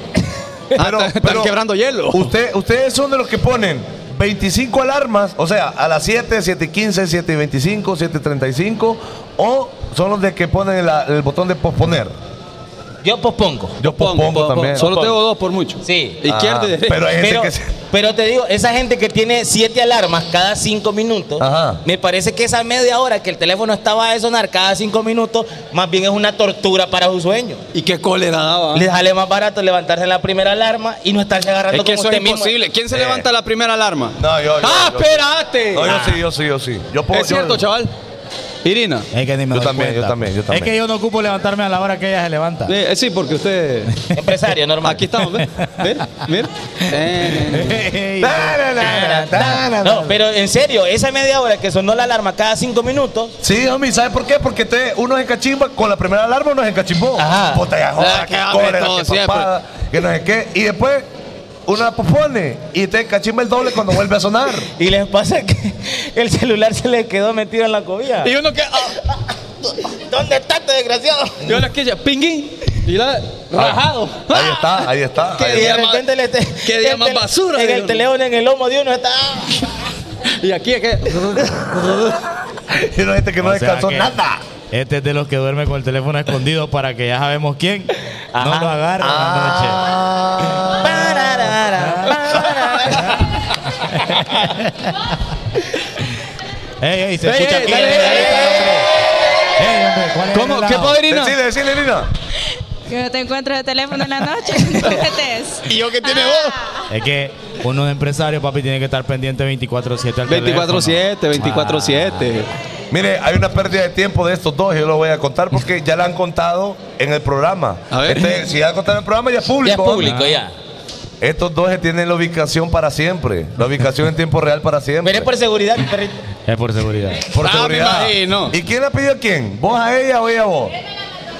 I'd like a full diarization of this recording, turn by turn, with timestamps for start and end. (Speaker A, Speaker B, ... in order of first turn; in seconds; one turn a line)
Speaker A: 0.8-1.5
Speaker B: 0.8-2.3
Speaker A: 2.1-12.1
Speaker C: 13.0-13.8
Speaker A: 13.8-14.8
Speaker B: 13.9-17.1
Speaker C: 14.8-15.2
Speaker C: 15.8-16.2
Speaker A: 16.2-17.7
Speaker C: 17.1-27.6
Speaker A: 21.4-21.8
Speaker B: 27.7-28.9
Speaker C: 28.7-32.5
Speaker B: 31.7-35.9
Speaker A: 32.9-33.2
Speaker A: 34.2-37.6
Speaker C: 35.8-36.2
Speaker B: 37.1-37.9
Speaker B: 38.6-39.1
Speaker D: 39.1-42.7
Speaker A: 39.5-40.7
Speaker B: 42.7-43.9
Speaker C: 44.1-45.1
Speaker B: 44.8-47.8
Speaker D: 45.3-45.8
Speaker D: 47.4-48.6
Speaker A: 48.2-50.1
Speaker C: 48.8-53.3
Speaker A: 53.4-61.0
Speaker C: 57.1-57.6
Speaker B: 58.0-59.5
Speaker A: 61.6-64.7
Speaker C: 64.8-68.3
Speaker B: 68.2-69.0
Speaker C: 69.8-71.6
Speaker B: 71.4-76.0
Speaker A: 73.5-75.7
Speaker C: 75.4-79.6
Speaker B: 76.6-78.0
Speaker B: 80.4-82.1
Speaker A: 81.8-84.4
Speaker D: 83.4-84.1
Speaker D: 84.7-89.8
Speaker C: 88.3-88.7
Speaker A: 89.0-91.4
Speaker C: 90.8-93.2
Speaker D: 93.8-94.9
Speaker D: 96.8-98.9
Speaker B: 97.2-98.8
Speaker C: 97.4-98.7
Speaker D: 99.6-101.0
Speaker B: 100.3-101.3
Speaker A: 101.1-102.1
Speaker E: 102.9-106.9
Speaker B: 105.7-106.6
Speaker D: 106.9-112.3
Speaker B: 110.3-112.5
Speaker A: 112.9-120.1
Speaker B: 117.9-118.5
Speaker C: 119.6-120.5
Speaker D: 120.0-120.4
Speaker A: 121.2-125.3
Speaker C: 125.0-126.2
Speaker D: 126.5-127.3
Speaker A: 127.3-130.7
Speaker B: 127.4-128.5